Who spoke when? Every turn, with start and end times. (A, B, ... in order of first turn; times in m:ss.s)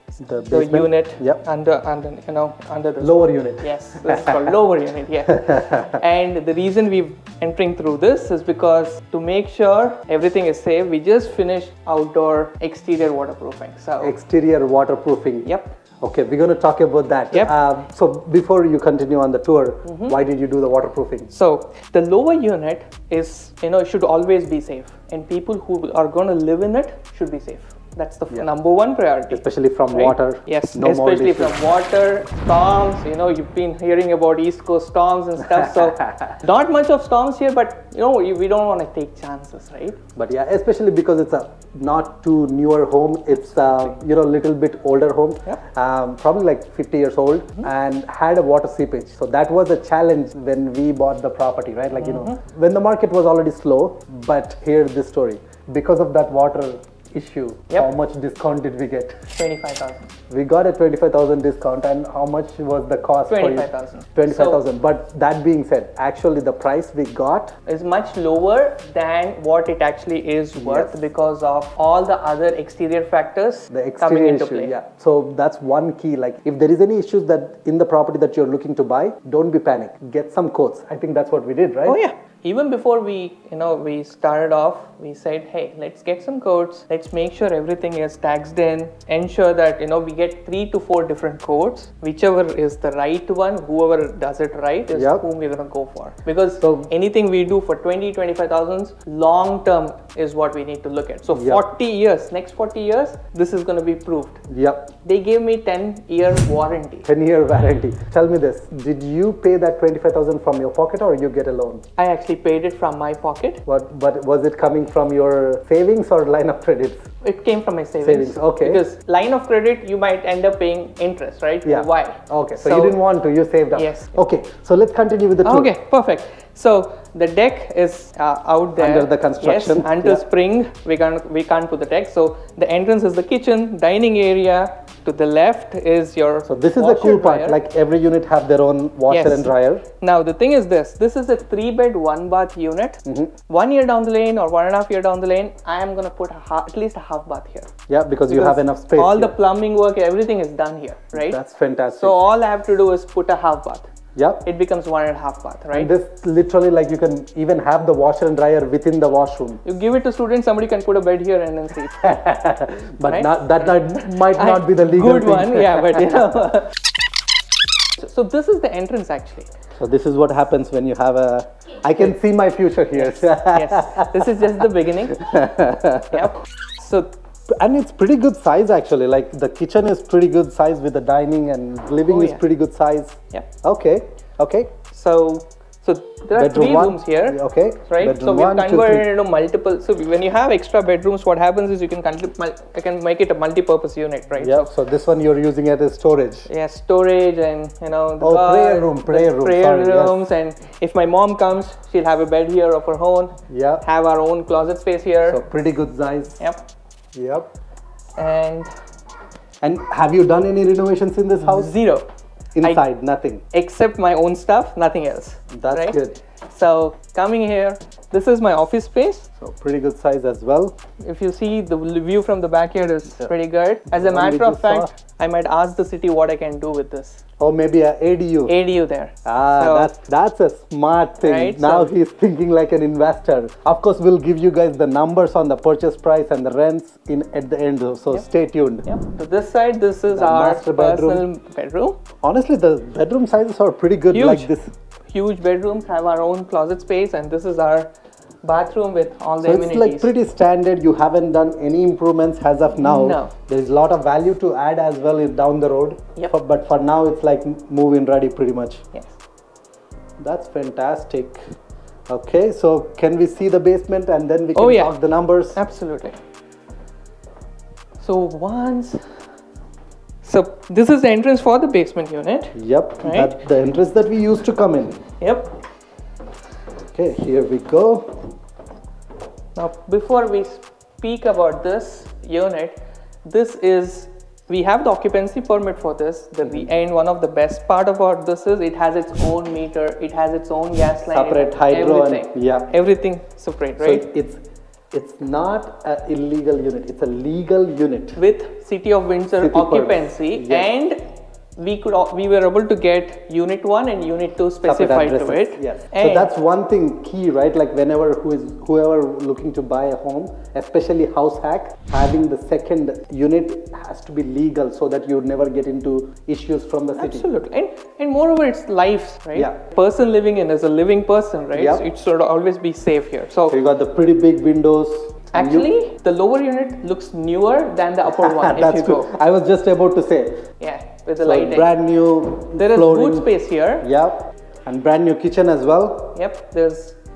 0:00.2-0:01.4 A
0:00.4-0:14.1 B
0:03.0-0:04.5 A
0:05.3-0:05.9 A
0:14.0-0:15.5 A
0:15.4-0:15.7 B
0:16.0-0:21.3 A
0:19.8-0:20.2 B
0:21.3-0:40.0 B
0:29.3-0:31.6 A
0:36.0-0:36.4 A
0:40.1-0:59.3 A
0:43.3-0:44.0 B
0:51.9-0:52.4 B
0:59.3-1:00.1 B
1:00.3-1:07.5 A
1:03.3-1:04.6 B
1:07.6-1:14.7 B
1:10.6-1:11.0 A
1:13.7-1:22.0 A
1:21.8-1:44.4 B
1:34.9-1:35.2 A
1:36.6-1:36.9 A
1:41.3-1:41.6 A
1:44.5-1:44.9 A
1:45.0-1:47.1 B
1:47.0-1:51.8 A
1:52.0-1:53.6 B
1:53.6-1:57.1 A
1:57.2-2:03.0 B
1:58.0-1:58.8 A
2:01.6-2:05.7 A
2:03.7-2:04.1 B
2:05.4-2:17.6 B
2:08.8-2:10.2 A
2:16.4-2:19.8 A
2:19.1-2:27.7 B
2:23.0-2:23.3 A
2:27.9-2:29.3 A
2:28.3-2:33.9 B
2:31.1-2:32.2 A
2:34.1-2:34.4 A
2:34.4-2:35.9 B
2:35.7-2:39.6 A
2:39.6-2:42.2 B
2:42.0-2:46.0 A
2:43.0-2:46.7 B
2:48.0-2:49.5 B
2:49.8-2:54.5 A
2:52.9-2:55.5 B
2:55.1-2:56.2 A
2:56.1-2:57.1 B
2:57.6-3:04.7 A
3:02.1-3:02.4 B
3:04.9-3:14.7 B
3:06.3-3:09.1 A
3:14.4-3:16.5 A
3:16.5-3:25.4 B
3:18.2-3:20.2 A
3:23.5-3:23.8 A
3:25.2-3:26.4 A
3:27.1-3:27.5 A
3:28.2-3:28.7 B
3:29.6-3:31.7 A
3:31.4-3:32.1 B
3:32.6-3:33.4 A
3:33.5-3:39.3 B
3:35.5-3:36.2 A
3:39.4-3:40.7 A
3:41.0-3:47.2 B
3:43.9-3:44.9 A
3:47.4-3:48.5 A
3:48.4-3:49.9 B
3:49.2-3:58.8 A
3:51.2-3:51.9 B
3:58.8-4:02.0 B
4:00.1-4:01.2 A
4:02.2-4:04.7 A
4:04.1-4:04.5 B
4:05.1-4:07.9 B
4:08.4-4:10.1 B
4:09.4-4:18.8 A
4:12.8-4:13.3 B
4:20.2-4:21.4 A
4:22.1-4:25.6 A
4:24.5-4:24.9 B
4:25.5-4:26.2 B
4:28.0-4:29.0 B
4:30.2-4:33.3 B
4:32.5-4:35.0 A
4:35.2-4:35.5 B
4:36.9-4:38.2 A
4:39.5-4:54.0 B
4:46.4-4:46.7 A
4:51.1-4:52.7 A
4:53.8-4:58.2 A
4:58.2-5:01.0 B
4:59.4-5:00.7 A
5:01.6-5:06.3 B
5:04.6-5:17.2 A
5:17.0-5:23.6 B
5:21.5-5:21.8 A
5:23.5-5:25.7 A
5:25.3-5:29.1 B
5:28.1-5:30.4 A
5:30.6-5:31.7 B
5:31.2-5:33.3 A
5:32.5-5:33.9 B
5:33.8-5:36.2 A
5:36.1-5:37.0 B